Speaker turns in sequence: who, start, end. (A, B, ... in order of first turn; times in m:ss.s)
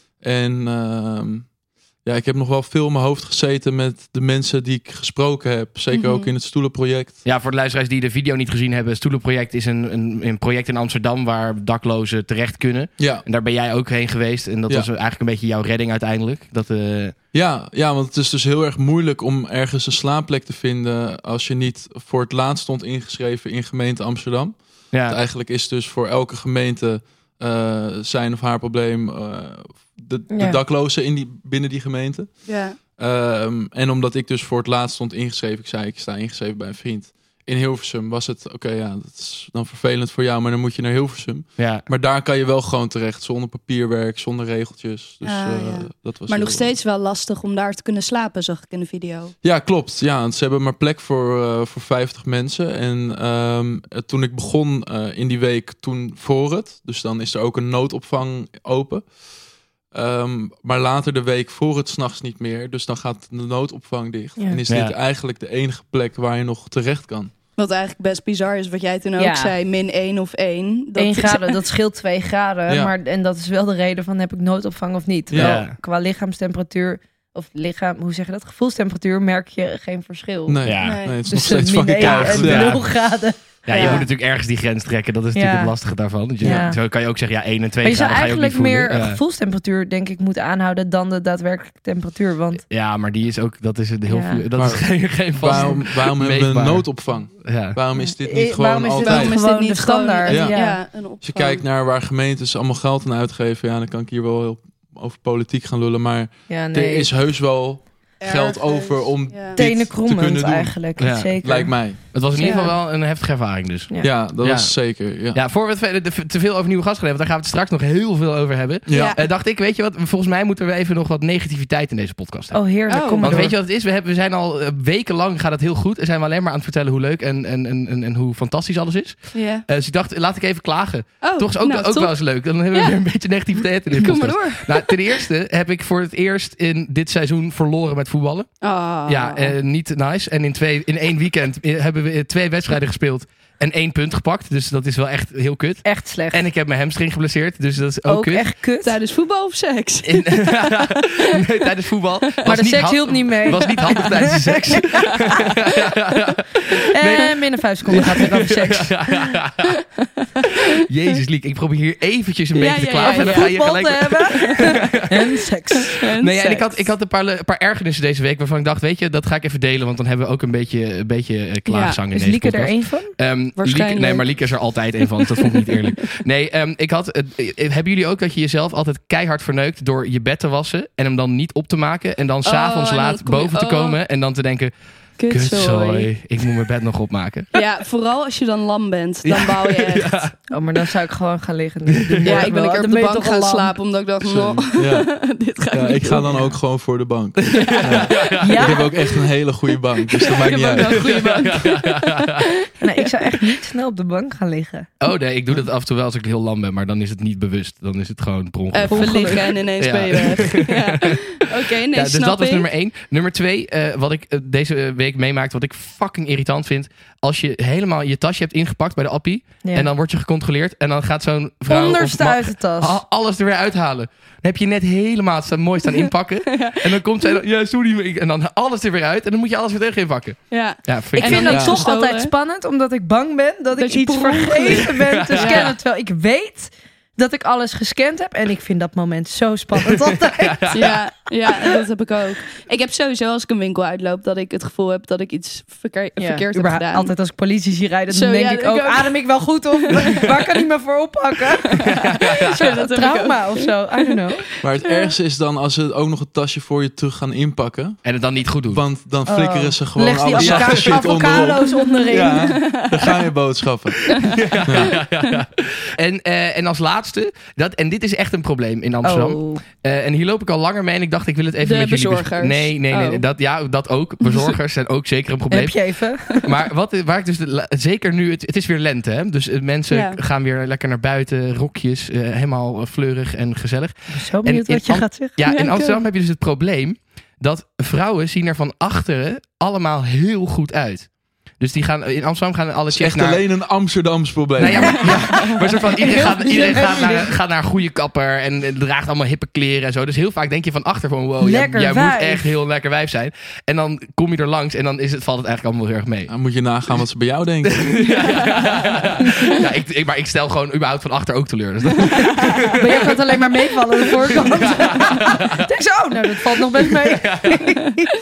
0:00.1-0:07.2 A
0:05.9-0:06.3 B
0:07.2-0:17.1 C
0:13.0-0:13.2 A
0:17.3-0:46.7 A
0:24.9-0:25.2 C
0:30.3-0:30.6 D
0:32.5-0:32.8 B
0:41.6-0:41.8 C
0:45.2-0:49.3 B
0:49.4-0:59.1 A
0:59.9-1:07.3 A
1:04.7-1:04.9 C
1:07.6-1:11.5 B
1:09.2-1:09.5 D
1:11.0-1:24.0 D
1:12.7-1:12.9 A
1:15.3-1:15.6 A
1:15.4-1:15.8 C
1:20.5-1:22.8 A
1:20.6-1:21.1 C
1:20.8-1:21.2 B
1:22.0-1:23.1 C
1:23.6-1:29.2 C
1:25.3-1:25.7 D
1:26.4-1:26.7 A
1:26.4-1:26.8 D
1:27.8-1:32.6 D
1:32.7-1:37.8 C
1:34.1-1:34.4 D
1:34.6-1:39.3 A
1:37.9-1:40.8 D
1:39.0-1:41.6 B
1:40.3-1:40.6 A
1:41.2-1:50.8 A
1:46.5-1:47.1 D
1:48.2-1:49.6 B
1:49.6-1:51.7 D
1:51.0-1:51.4 C
1:51.4-1:52.0 A
1:52.1-1:54.8 C
1:52.3-1:52.7 D
1:52.4-1:52.7 B
1:54.0-1:55.4 A
1:55.3-2:02.6 C
1:58.9-1:59.2 A
1:58.9-1:59.2 B
2:02.5-2:03.5 D
2:02.9-2:03.4 B
2:03.2-2:18.5 C
2:09.3-2:09.6 B
2:11.2-2:12.1 B
2:12.7-2:13.0 B
2:13.6-2:15.2 B
2:18.6-2:19.5 B
2:19.0-2:28.5 C
2:25.8-2:26.4 D
2:28.0-2:28.9 D
2:28.8-2:31.0 B
2:30.0-2:39.8 C
2:32.4-2:34.6 D
2:33.5-2:34.1 B
2:36.9-2:38.9 D
2:40.7-2:45.4 C
2:42.5-2:43.5 B
2:42.9-2:46.0 D
2:46.0-2:46.8 B
2:46.1-3:04.7 C
2:51.7-2:52.0 B
2:52.1-2:53.1 D
2:53.6-2:54.2 B
3:02.4-3:04.0 B
3:05.2-3:06.1 B
3:05.3-3:07.5 C
3:07.5-3:10.3 B
3:09.2-3:10.3 C
3:10.5-3:13.7 D
3:11.9-3:12.5 C
3:12.2-3:16.5 B
3:14.2-3:15.1 A
3:15.7-3:21.3 A
3:17.5-3:18.7 C
3:17.6-3:18.3 B
3:18.4-3:18.9 D
3:20.1-3:23.1 B
3:20.8-3:22.5 C
3:22.8-3:24.9 D
3:25.0-3:31.2 C
3:28.7-3:32.6 B
3:28.9-3:29.4 D
3:31.9-3:51.6 C
3:39.6-3:39.9 D
3:41.7-3:43.0 D
3:45.9-3:47.4 B
3:50.5-3:52.3 B
3:51.2-4:00.8 D
3:51.5-3:51.8 A
3:53.8-3:55.7 B
3:54.9-3:55.7 C
3:59.8-4:01.0 C
4:00.7-4:07.1 B
4:06.2-4:14.4 D
4:08.1-4:09.2 B
4:09.8-4:10.4 B
4:11.7-4:15.1 B
4:11.9-4:12.6 C
4:14.6-4:18.0 A
4:18.0-4:18.8 C
4:18.7-4:24.1 A
4:19.3-4:22.5 D
4:20.3-4:21.0 C
4:22.3-4:23.2 B
4:24.1-4:24.9 B
4:24.2-4:35.8 C
4:24.6-4:25.0 A
4:29.0-4:29.6 D
4:31.6-4:33.2 B
4:34.2-4:34.5 B
4:35.5-4:36.3 D
4:36.3-4:51.1 C
4:39.9-4:40.2 B
4:44.1-4:45.4 D
4:45.4-4:46.0 B
4:51.6-4:53.4 C
4:52.9-4:55.2 A
4:54.6-5:06.3 C
4:55.0-4:57.3 D
5:01.4-5:02.5 D
5:06.3-5:07.9 A
5:07.6-5:13.2 C
5:08.3-5:08.7 B
5:12.0-5:12.8 B
5:12.8-5:18.1 D
5:14.4-5:15.7 C
5:16.8-5:17.7 C